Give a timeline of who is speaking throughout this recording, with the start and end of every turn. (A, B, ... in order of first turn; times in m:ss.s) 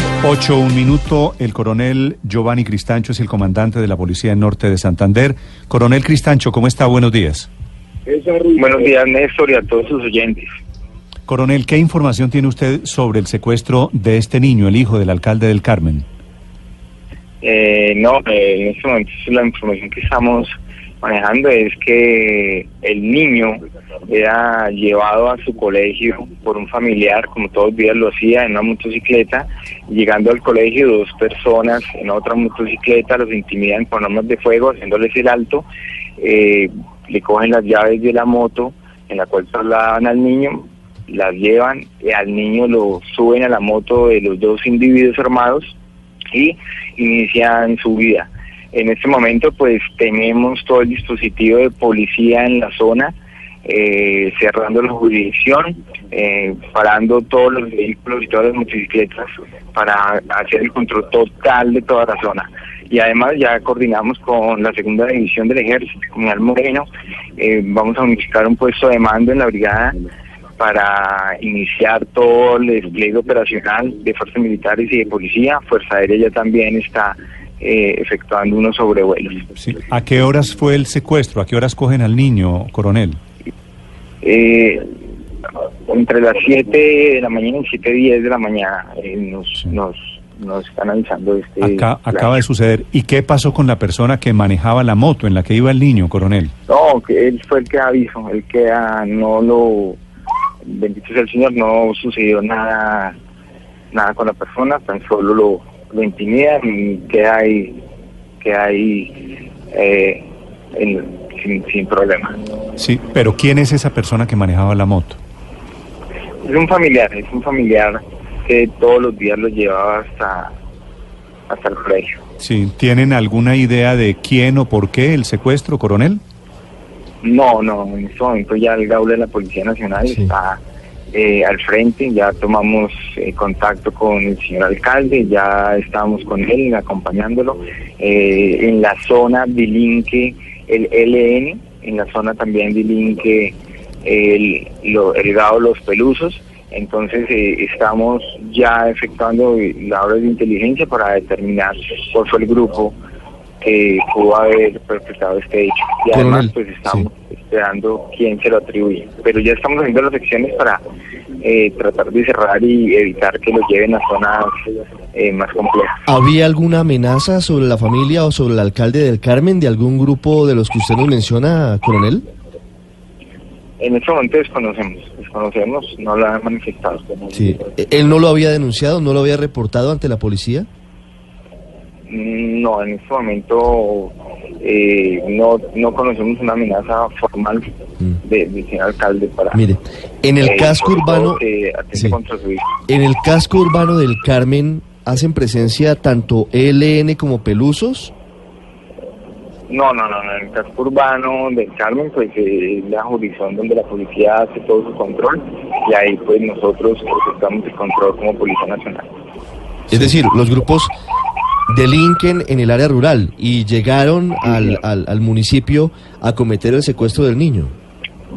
0:00.2-0:07.5 A
0:08.4-0:10.5 B
0:11.3-0:16.1 A
0:17.4-0:35.7 B
0:36.2-0:45.8 B
0:46.3-1:10.0 B
1:10.6-1:19.4 B
1:19.6-1:23.2 A
1:24.2-1:24.9 B
1:25.9-1:32.4 B
1:31.6-1:36.5 A
1:36.7-1:40.0 B
1:40.6-1:43.2 B
1:43.9-1:47.8 B
1:48.4-1:52.4 B
1:52.8-1:55.2 A
1:56.4-2:00.6 B
2:01.5-2:02.2 B
2:02.4-2:06.2 A
2:07.2-2:10.6 B
2:11.1-2:33.0 B
2:33.6-2:40.8 B
2:36.1-2:37.1 C
2:41.4-2:44.6 B
2:45.1-2:46.0 B
2:46.1-2:52.2 C
2:53.8-2:57.3 B
2:57.3-3:00.7 C
3:02.1-3:07.7 B
3:08.2-3:09.6 B
3:09.5-3:11.4 C
3:10.4-3:12.7 B
3:11.9-3:12.2 C
3:12.9-3:18.1 C
3:19.7-3:29.1 B
3:29.9-3:30.9 C
3:31.7-3:37.7 C